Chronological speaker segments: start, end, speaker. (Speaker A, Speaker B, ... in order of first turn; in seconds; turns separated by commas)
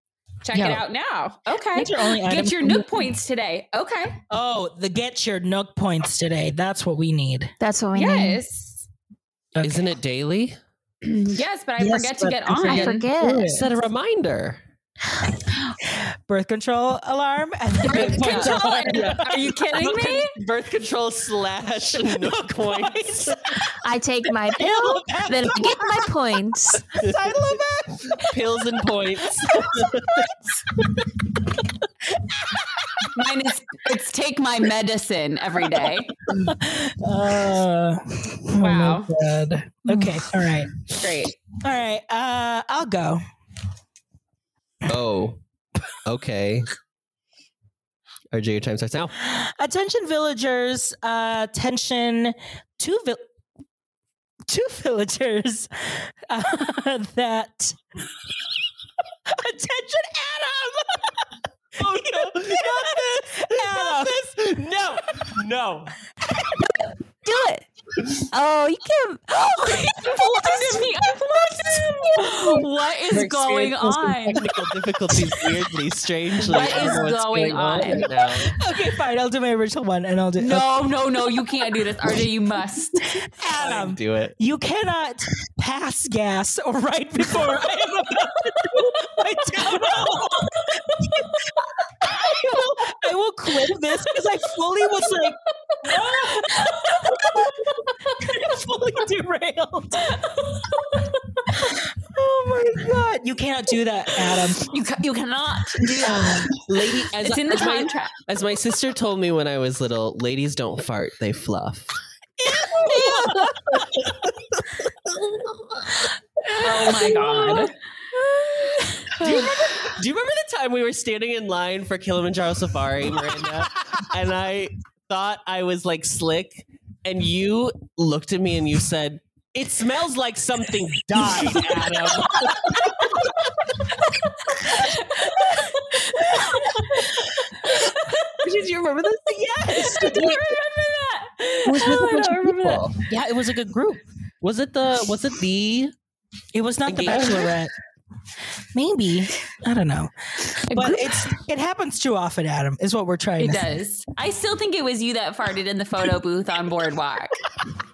Speaker A: 0.4-4.2, Speaker B: 0.5-0.8, Speaker B: 1.7-3.1, Speaker B: 4.3-7.5, Speaker C: 7.6-8.4, Speaker A: 7.9-8.9, Speaker B: 9.6-9.8, Speaker D: 9.6-10.6, Speaker A: 11.0-13.0, Speaker B: 11.8-13.7, Speaker C: 12.7-13.6, Speaker D: 13.3-14.6, Speaker B: 15.8-19.5, Speaker A: 17.8-20.3, Speaker D: 17.9-23.7, Speaker B: 21.9-23.7, Speaker C: 23.8-26.9, Speaker B: 24.6-26.1, Speaker B: 27.0-28.4, Speaker D: 27.0-27.5, Speaker D: 28.2-30.3, Speaker B: 29.4-33.1, Speaker A: 33.1-36.2, Speaker B: 36.3-40.8, Speaker A: 38.5-39.1, Speaker C: 39.9-40.2, Speaker A: 41.0-41.4, Speaker B: 41.5-43.2, Speaker D: 44.8-45.4, Speaker D: 46.0-46.7, Speaker D: 48.3-49.1, Speaker B: 49.2-53.2, Speaker B: 54.5-57.8, Speaker B: 59.3-61.2, Speaker D: 61.8-65.9, Speaker B: 61.8-64.2, Speaker C: 67.2-67.6, Speaker C: 68.2-70.9, Speaker A: 69.8-74.5, Speaker D: 73.1-78.6, Speaker A: 76.4-78.4, Speaker B: 76.6-77.0, Speaker B: 78.5-80.7, Speaker A: 80.4-83.2, Speaker B: 83.2-91.5, Speaker D: 83.6-84.3, Speaker A: 90.0-91.5, Speaker B: 92.0-100.2, Speaker A: 95.7-98.3, Speaker A: 100.0-101.7, Speaker B: 101.6-104.7, Speaker A: 104.4-106.4, Speaker B: 105.8-106.5, Speaker D: 106.0-111.9, Speaker A: 107.2-108.1, Speaker B: 112.4-113.9, Speaker D: 112.7-116.0, Speaker A: 116.4-117.7, Speaker B: 116.6-117.7, Speaker D: 116.6-117.7, Speaker A: 118.5-119.9, Speaker D: 119.1-133.8, Speaker A: 134.1-138.4, Speaker B: 136.2-136.6, Speaker D: 138.4-140.6, Speaker A: 139.7-142.9, Speaker B: 141.7-144.0, Speaker D: 142.6-142.9, Speaker D: 144.4-145.9, Speaker B: 146.5-147.7, Speaker D: 146.9-147.5, Speaker A: 147.1-147.5, Speaker B: 148.7-153.7, Speaker A: 150.7-151.3, Speaker A: 153.4-157.4